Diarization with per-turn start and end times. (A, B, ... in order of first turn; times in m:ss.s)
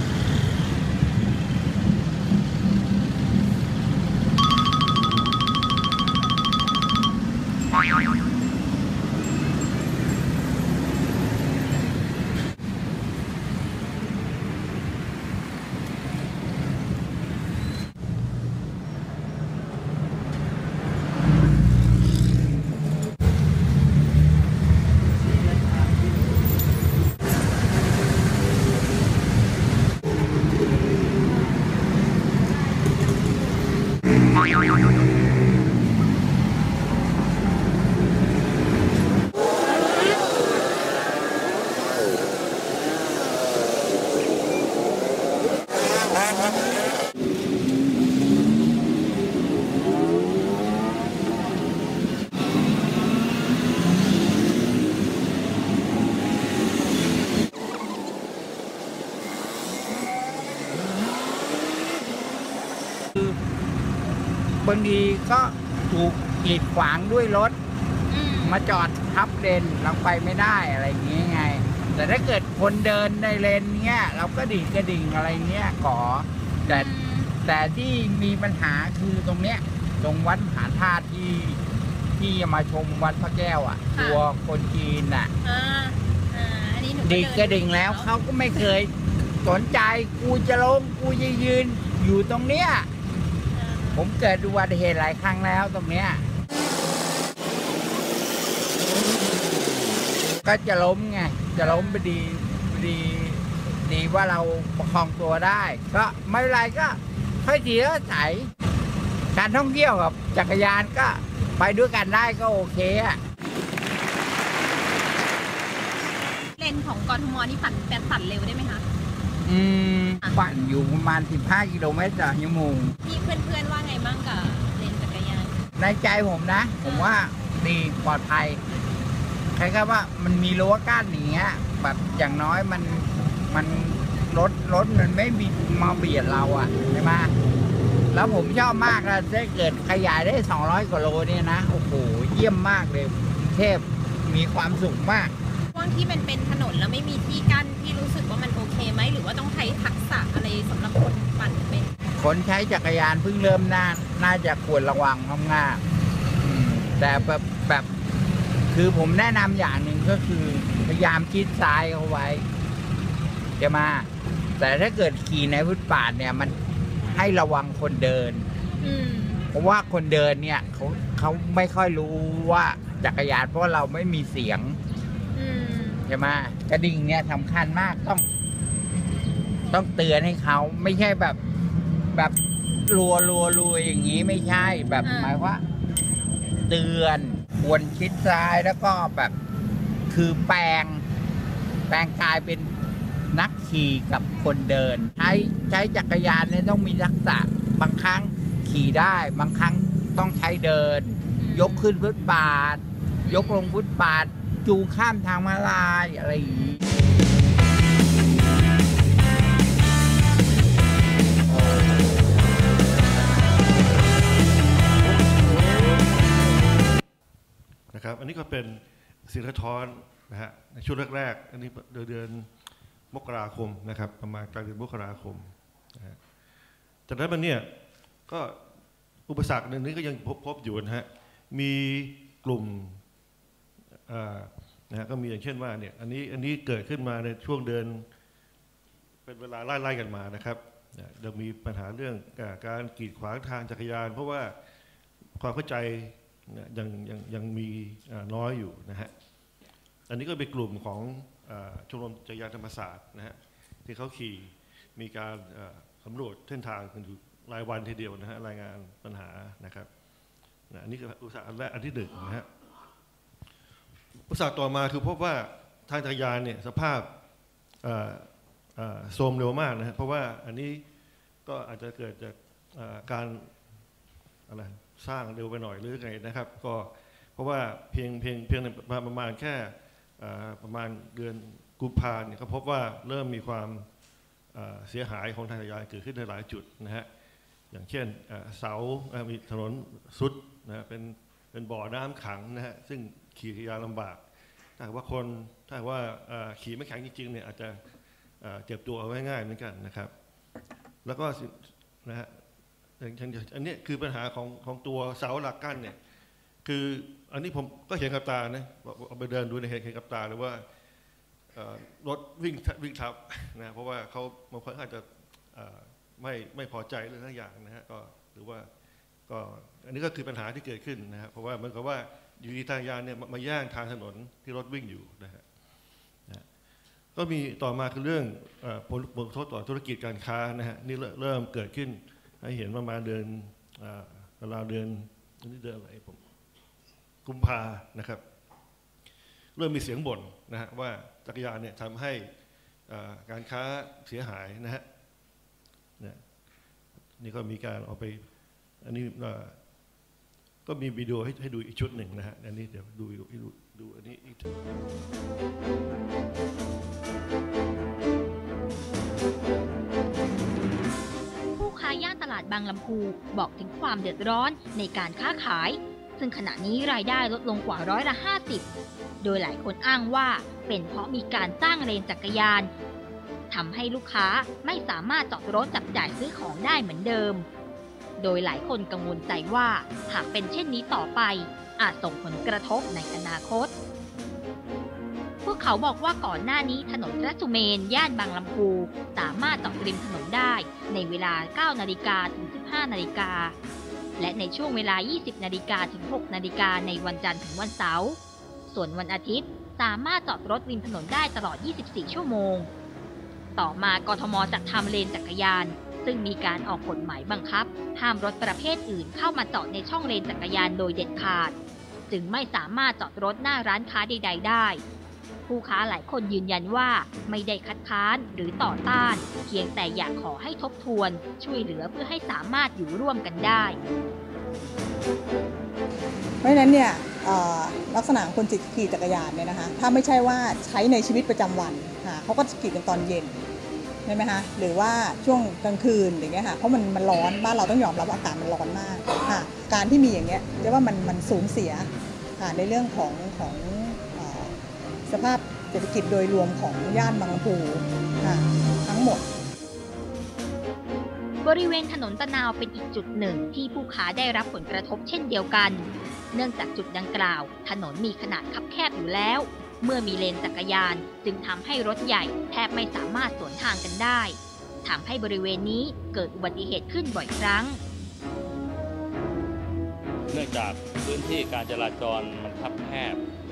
1:04.6-1:07.6 A
1:08.1-1:08.6 B
1:08.4-1:16.9 A
1:16.6-1:17.3 B
1:17.4-1:21.6 A
1:22.2-1:25.3 A
1:24.0-1:24.2 B
1:25.4-1:28.1 B
1:27.0-1:28.9 A
1:29.4-1:32.9 A
1:33.5-1:34.0 B
1:33.9-1:36.2 A
1:36.5-1:36.8 B
1:40.4-1:48.5 A
1:41.6-1:42.1 B
1:49.3-1:53.2 A
1:56.6-1:58.8 B
1:59.4-2:02.9 A
2:03.0-2:05.6 B
2:05.8-2:08.6 A
2:06.8-2:07.1 B
2:09.5-2:17.3 A
2:18.1-2:25.3 A
2:25.7-2:31.9 B
2:32.2-2:35.8 A
2:36.4-2:37.9 A
2:38.7-2:42.4 A
2:43.6-2:44.1 A
2:44.6-2:46.6 A
2:47.1-2:48.5 A
2:48.8-2:49.4 B
2:49.5-2:54.8 A
2:55.3-2:56.0 B
2:56.1-2:58.2 A
2:59.7-3:01.4 A
3:02.1-3:05.6 A
3:05.0-3:05.4 B
3:06.7-3:09.3 A
3:10.1-3:11.0 A
3:11.9-3:12.7 A
3:13.3-3:26.8 A
3:21.4-3:21.9 B
3:23.3-3:23.6 B
3:37.9-3:42.5 C
3:43.1-3:46.2 C
3:47.1-3:47.7 C
3:48.3-3:48.6 C
3:49.3-3:53.0 C
3:54.1-3:58.1 C
3:59.2-4:04.5 C
4:05.4-4:09.1 C
4:10.1-4:19.9 C
4:20.7-4:22.5 C
4:24.3-4:27.1 C
4:27.8-4:30.8 C
4:31.4-4:33.5 C
4:34.5-4:43.8 C
4:44.5-4:47.1 C
4:47.7-4:54.2 C
4:54.8-4:57.8 C
4:58.4-5:00.1 C
5:01.0-5:02.4 C
5:03.0-5:06.0 C
5:06.6-5:10.6 C
5:11.5-5:18.7 C
5:19.3-5:25.4 C
5:27.1-5:36.2 C
5:37.2-5:38.2 C
5:39.6-5:42.3 C
5:42.9-5:44.8 C
5:47.2-5:48.2 C
5:48.8-5:49.6 C
5:50.7-5:54.5 C
6:01.6-6:08.6 D
6:09.2-6:12.7 D
6:13.5-6:17.4 D
6:18.2-6:23.7 D
6:25.4-6:33.6 D
6:34.2-6:42.7 D
6:43.6-6:51.6 D
6:52.1-6:54.8 D
6:55.5-7:03.8 D
7:06.4-7:13.4 E
7:14.0-7:29.3 E
7:31.4-7:47.8 D
7:50.3-7:53.2 F